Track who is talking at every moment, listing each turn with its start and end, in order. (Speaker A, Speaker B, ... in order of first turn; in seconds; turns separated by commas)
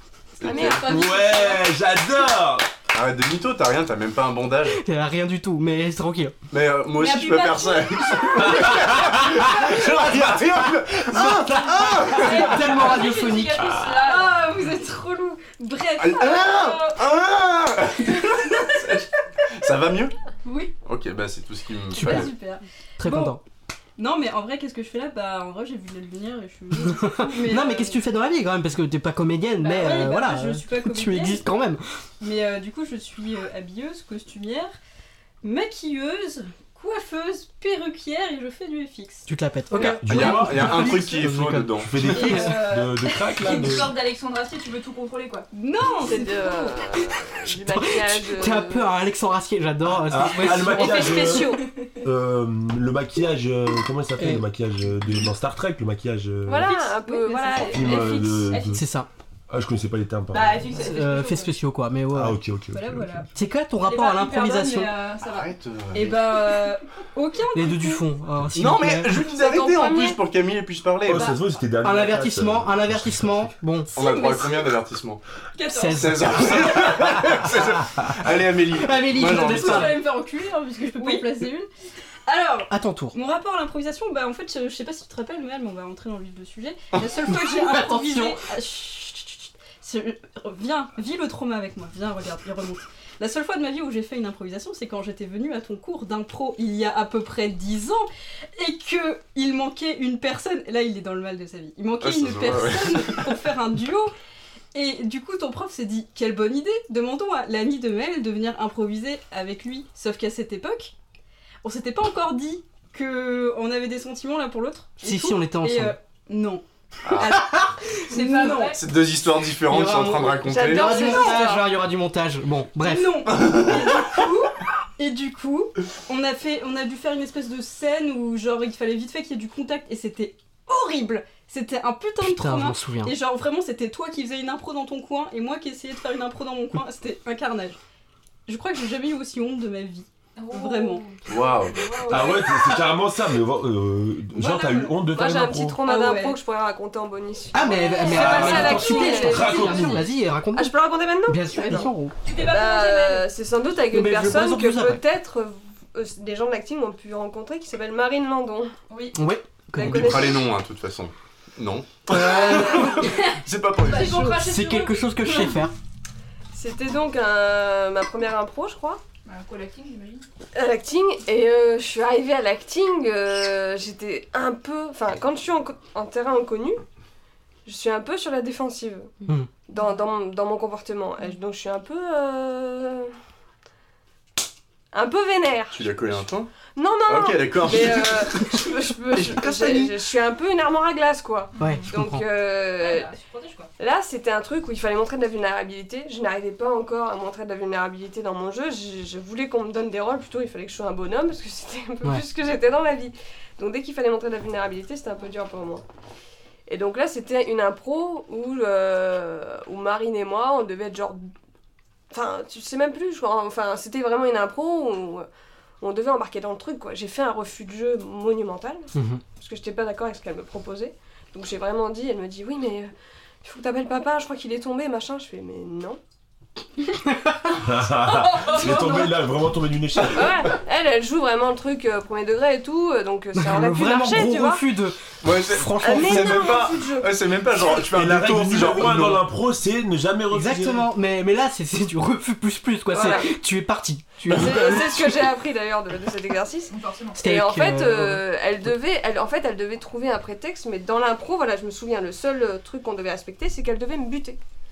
Speaker A: 0.4-0.9, Speaker B: 0.4-1.0, Speaker C: 0.4-1.2, Speaker D: 0.5-1.6, Speaker E: 0.8-2.7, Speaker A: 2.9-4.8, Speaker F: 4.8-6.3, Speaker A: 6.5-12.5, Speaker C: 7.0-7.8, Speaker D: 7.3-8.2, Speaker E: 8.6-9.3, Speaker E: 11.1-12.1, Speaker F: 11.1-13.7, Speaker D: 12.2-14.6, Speaker E: 13.6-14.1, Speaker C: 14.0-16.6, Speaker A: 16.0-20.1, Speaker D: 16.2-17.0, Speaker A: 20.9-22.3, Speaker C: 21.9-23.4, Speaker F: 22.0-22.3, Speaker F: 23.0-23.4, Speaker C: 24.0-28.0, Speaker F: 26.8-31.8, Speaker C: 29.6-31.4, Speaker C: 32.2-34.7, Speaker C: 35.4-39.3, Speaker F: 39.3-42.6, Speaker A: 39.7-42.0, Speaker E: 40.0-41.1, Speaker E: 41.8-44.0, Speaker D: 42.1-45.5, Speaker C: 42.3-43.7, Speaker C: 45.5-46.8, Speaker B: 46.0-48.9, Speaker F: 47.5-51.5, Speaker E: 50.0-56.8, Speaker D: 50.5-51.7, Speaker F: 54.2-54.4, Speaker B: 56.5-58.2, Speaker D: 56.7-58.8, Speaker C: 56.7-58.2, Speaker E: 57.7-58.8, Speaker F: 58.7-59.1, Speaker E: 59.5-60.8, Speaker D: 60.3-61.5, Speaker F: 60.8-62.4, Speaker E: 62.1-63.2, Speaker C: 62.7-63.3, Speaker F: 63.3-64.9, Speaker D: 63.8-65.5, Speaker A: 65.2-66.5, Speaker C: 65.9-68.0, Speaker F: 67.5-69.2, Speaker A: 68.5-71.3, Speaker B: 69.3-70.2, Speaker E: 71.0-73.5, Speaker F: 71.8-73.9, Speaker A: 73.9-75.2, Speaker C: 74.0-74.5, Speaker C: 75.6-75.9, Speaker D: 75.6-75.9, Speaker F: 75.7-77.5, Speaker A: 75.9-80.1, Speaker F: 78.8-80.0, Speaker C: 79.3-81.7, Speaker D: 79.7-80.0, Speaker D: 81.0-81.3, Speaker C: 82.2-104.1, Speaker F: 82.7-83.2, Speaker F: 87.3-88.4, Speaker A: 102.0-103.4, Speaker C: 104.7-110.9, Speaker C: 111.6-118.8, Speaker F: 115.0-116.0, Speaker A: 117.0-117.4, Speaker D: 118.1-118.8, Speaker A: 118.7-121.0, Speaker F: 119.7-123.3, Speaker B: 120.4-121.7, Speaker C: 122.8-137.8, Speaker A: 123.3-124.0, Speaker F: 132.2-133.1, Speaker C: 138.5-141.0, Speaker D: 140.4-142.7, Speaker A: 141.3-141.8, Speaker B: 141.7-142.7, Speaker E: 142.1-145.8, Speaker D: 144.4-144.9, Speaker B: 145.1-158.7, Speaker C: 145.8-146.4, Speaker F: 147.5-150.8, Speaker D: 147.9-149.6, Speaker E: 148.1-150.0, Speaker F: 151.3-152.1, Speaker D: 152.2-153.2, Speaker F: 153.9-155.0, Speaker D: 158.9-159.2, Speaker F: 159.1-160.3, Speaker B: 159.7-160.5, Speaker A: 159.8-164.2, Speaker F: 162.1-163.0, Speaker B: 162.2-162.9, Speaker D: 163.8-165.5, Speaker F: 164.0-165.7, Speaker B: 166.5-169.0, Speaker D: 169.2-170.2, Speaker B: 170.5-176.8, Speaker B: 177.7-179.2, Speaker B: 179.7-183.1, Speaker B: 184.9-186.2, Speaker A: 185.7-186.5, Speaker B: 186.7-193.1, Speaker A: 187.1-189.9, Speaker F: 191.6-192.2, Speaker D: 192.8-193.7, Speaker B: 193.8-205.8, Speaker B: 206.7-211.3, Speaker B: 212.1-215.3, Speaker B: 215.8-222.9, Speaker F: 218.9-219.2, Speaker B: 223.4-226.0, Speaker F: 227.1-227.4, Speaker E: 227.6-230.5, Speaker D: 228.1-229.1, Speaker B: 230.1-234.6, Speaker F: 233.3-236.6, Speaker A: 235.2-239.2, Speaker B: 235.8-237.1, Speaker E: 237.7-240.9, Speaker F: 240.3-245.2, Speaker B: 242.9-243.3, Speaker B: 244.3-254.4, Speaker D: 246.7-247.2, Speaker F: 247.1-248.2